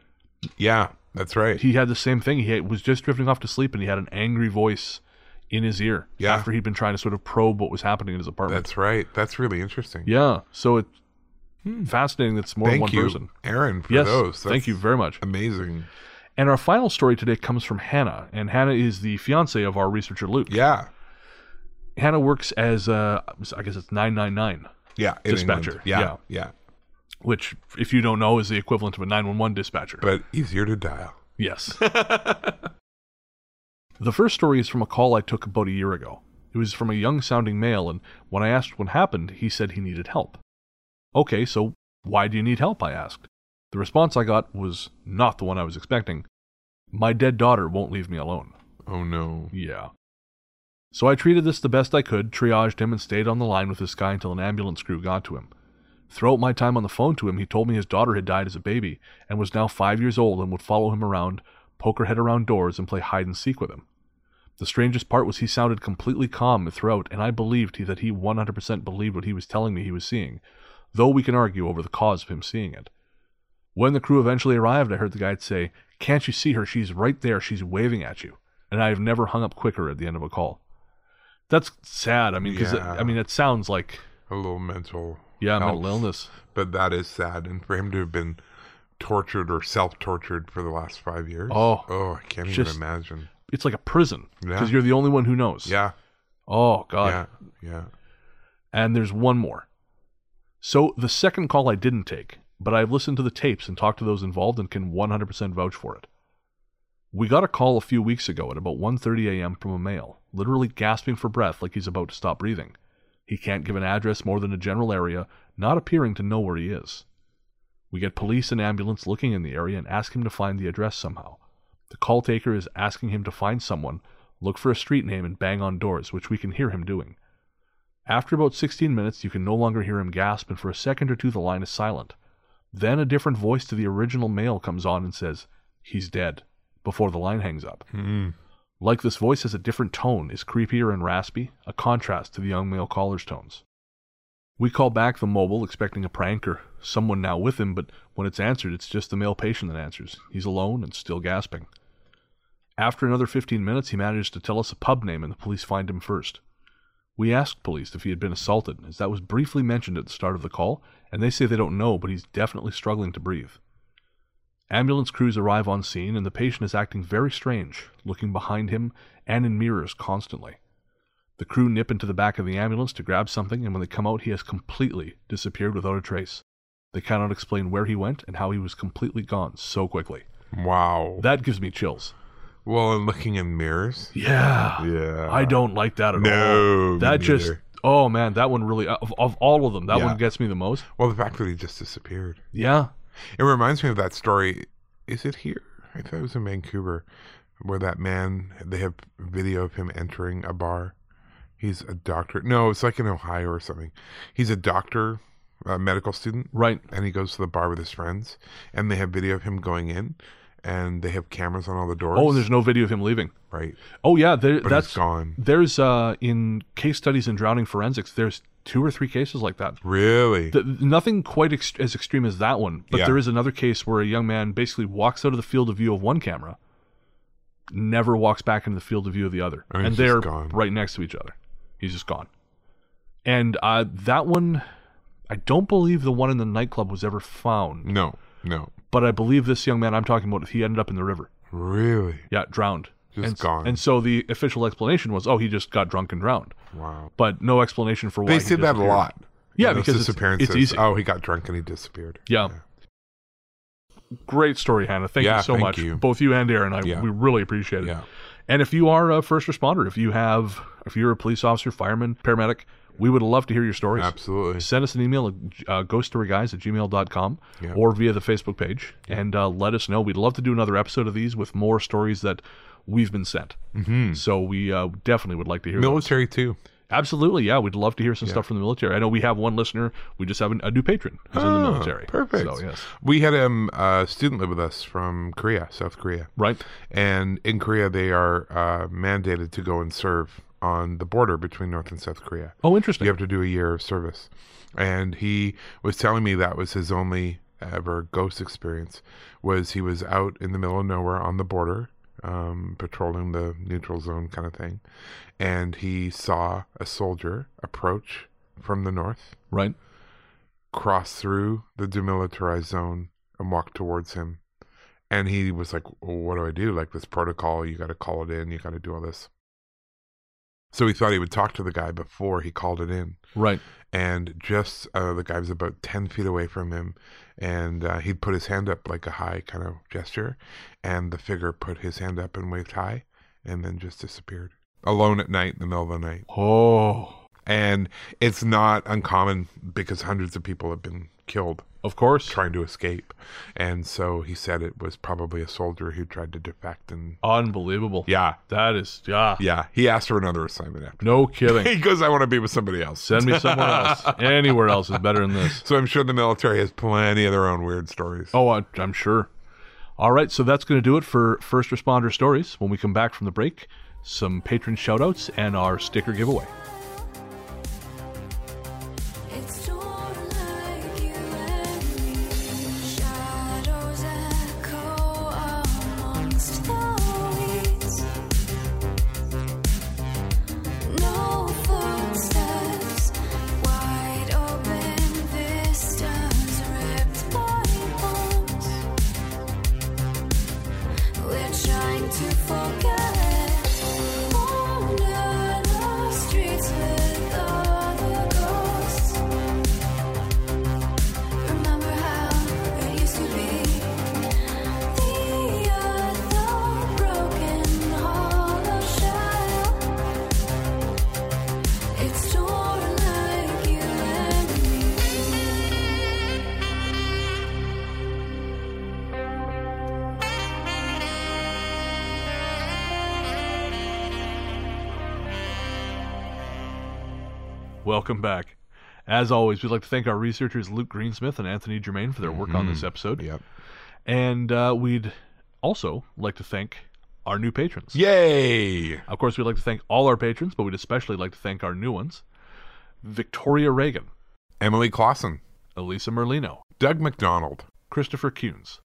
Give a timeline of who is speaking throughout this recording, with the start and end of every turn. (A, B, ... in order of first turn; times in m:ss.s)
0:00.6-0:01.6 A
0:01.6-0:08.7 B
0:06.2-0:06.5 A
0:08.5-0:10.1 A
0:10.0-0:10.9 B
0:11.6-0:11.9 A
0:11.8-0:13.3 B
0:12.6-0:15.9 A
0:13.9-0:15.2 B
0:16.4-0:20.6 B
0:20.5-0:20.9 A
0:22.0-0:24.7 B
0:25.0-0:26.5 A
0:25.3-0:26.2 B
0:27.2-0:30.0 B
0:30.0-0:31.2 A
0:31.4-0:31.9 B
0:31.8-0:32.6 A
0:34.0-0:40.4 B
0:41.1-0:46.2 B
0:46.9-0:48.5 B
0:48.9-0:49.5 A
0:49.5-0:49.9 B
0:50.9-0:55.5 B
0:56.1-1:03.8 B
1:04.6-1:10.4 B
1:10.9-1:12.9 B
1:13.7-1:20.6 B
1:21.5-1:24.0 B
1:22.4-1:23.2 A
1:24.3-1:28.4 A
1:25.4-1:26.3 B
1:29.0-1:33.3 A
1:31.5-1:31.9 B
1:32.4-1:32.8 B
1:33.4-1:35.8 B
1:34.4-1:34.7 A
1:35.6-1:35.9 A
1:36.5-1:37.2 B
1:37.0-1:37.9 A
1:38.7-1:39.6 B
1:40.6-1:46.1 B
1:47.1-1:52.7 B
1:53.3-1:57.0 B
1:57.9-2:01.4 B
2:01.9-2:07.2 B
2:08.1-2:12.1 B
2:12.7-2:17.8 B
2:17.9-2:18.3 A
2:18.8-2:23.6 B
2:24.6-2:31.7 B
2:32.8-2:36.4 B
2:37.2-2:43.6 B
2:44.7-2:50.6 B
2:51.4-2:56.4 B
2:56.9-3:00.2 B
3:00.5-3:01.2 A
3:01.2-3:02.1 B
3:02.6-3:04.1 A
3:04.1-3:10.9 B
3:04.8-3:05.6 A
3:06.1-3:07.6 A
3:09.9-3:10.2 A
3:11.0-3:12.4 A
3:12.5-3:12.9 B
3:13.4-3:17.0 A
3:17.6-3:20.9 A
3:21.6-3:32.5 A
3:26.5-3:26.8 B
3:32.1-3:33.3 B
3:33.5-3:33.8 A
3:34.0-3:39.8 B
3:34.6-3:35.4 A
3:39.8-3:40.6 A
3:40.5-3:46.6 B
3:42.9-3:43.2 A
3:47.7-3:52.3 B
3:49.7-3:50.6 A
3:53.2-3:54.6 B
3:55.3-3:57.9 B
3:57.8-3:58.7 A
3:58.9-4:01.3 B
4:01.5-4:02.3 A
4:02.3-4:06.5 B
4:03.1-4:03.8 A
4:06.7-4:07.1 A
4:07.2-4:10.9 B
4:08.2-4:12.6 A
4:12.3-4:12.5 B
4:14.2-4:17.9 B
4:15.2-4:16.0 A
4:18.5-4:33.6 B
4:24.0-4:24.7 A
4:33.7-4:34.2 A
4:34.1-4:36.1 B
4:35.7-4:36.6 A
4:36.9-4:42.9 B
4:41.3-4:46.3 A
4:46.4-4:46.6 B
4:46.8-5:04.8 A
4:52.6-4:53.1 B
5:05.4-5:09.4 A
5:09.5-5:09.8 B
5:10.7-5:14.4 A
5:15.1-5:19.3 A
5:20.7-5:23.2 A
5:23.4-5:23.6 B
5:23.9-5:36.2 A
5:36.3-5:37.2 B
5:37.4-5:41.7 A
5:41.8-5:42.4 B
5:42.3-5:47.2 A
5:47.2-5:49.4 B
5:48.0-5:48.4 A
5:49.4-5:58.4 A
5:51.0-5:51.7 B
5:53.0-5:55.6 B
5:58.3-5:59.3 B
6:00.0-6:06.5 B
6:09.3-6:18.1 C
6:20.8-6:28.9 C
6:31.2-6:39.2 C
6:41.4-6:44.2 C
6:44.9-6:50.0 C
6:51.9-6:55.8 C
7:07.8-7:13.2 B
7:12.2-7:13.4 A
7:14.0-7:18.0 B
7:17.9-7:19.0 A
7:19.1-7:22.2 B
7:23.0-7:24.1 B
7:24.6-7:25.4 A
7:25.8-7:26.6 B
7:26.8-7:27.7 A
7:27.9-7:28.8 B